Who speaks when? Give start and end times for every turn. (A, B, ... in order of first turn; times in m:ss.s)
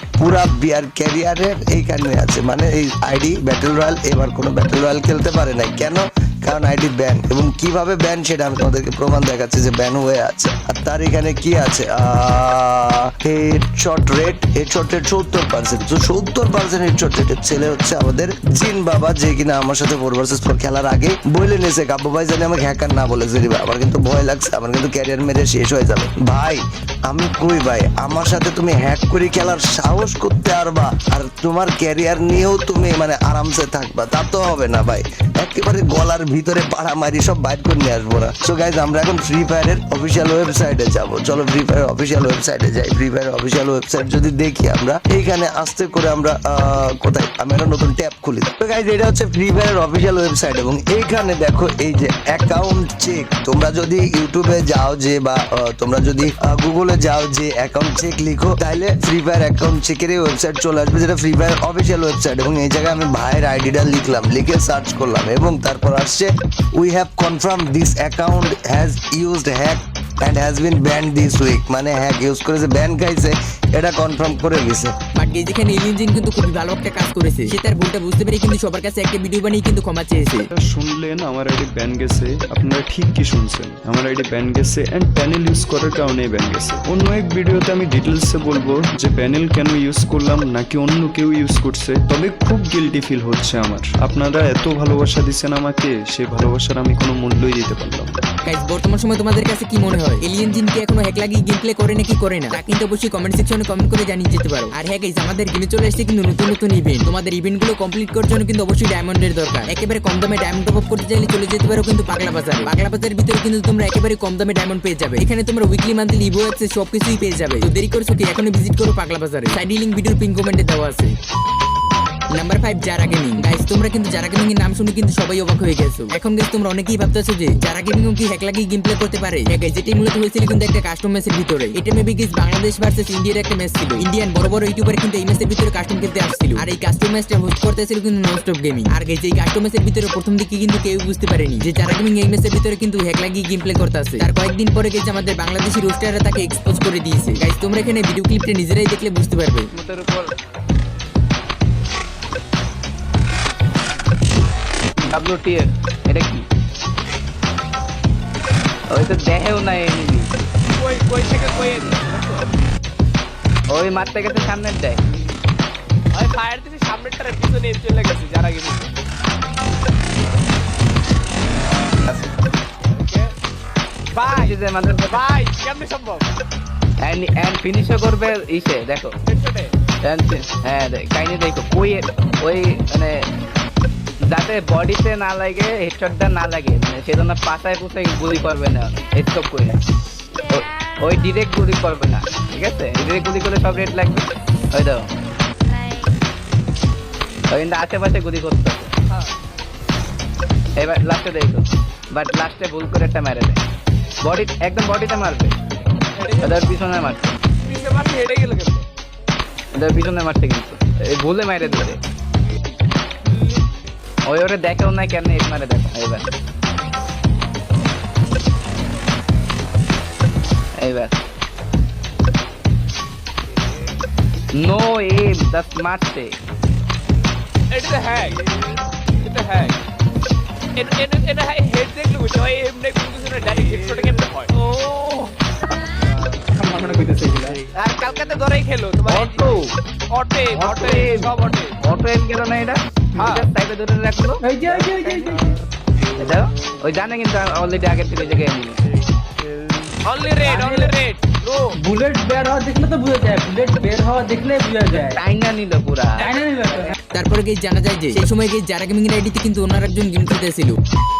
0:00.2-1:14.9 A
1:15.2-1:20.4 B
1:20.6-1:38.2 C
1:38.4-2:01.1 B
2:02.3-2:29.7 B
2:29.7-2:30.2 D
2:35.0-2:36.4 D
2:38.9-2:40.4 D
2:40.7-2:42.5 E
2:43.7-2:45.0 D
2:46.1-2:48.9 E
2:53.0-2:53.3 E
2:54.1-2:54.6 E
2:54.2-2:55.2 D
2:55.1-2:56.3 E
2:57.0-2:59.2 D
2:59.3-2:59.7 E
3:00.0-3:03.2 D
3:04.3-3:09.8 D
3:10.5-3:15.1 D
3:17.5-3:18.9 D
3:20.8-3:23.6 D
3:24.2-3:25.5 D
3:26.2-3:26.8 E
3:26.4-3:27.4 D
3:27.6-3:28.8 E
3:29.8-3:32.0 D
3:34.2-3:36.3 D
3:40.8-3:41.1 D
3:44.5-3:46.3 D
3:47.7-3:48.4 E
3:49.2-3:49.8 E
3:50.8-3:54.5 E
3:57.8-4:01.8 E
3:59.0-3:59.7 D
4:00.5-4:04.4 D
4:03.1-4:03.4 E
4:04.4-4:05.4 F
4:06.2-4:08.8 D
4:10.0-4:11.8 E
4:11.8-4:15.2 F
4:14.9-4:16.3 D
4:16.2-4:16.9 F
4:17.1-4:20.8 B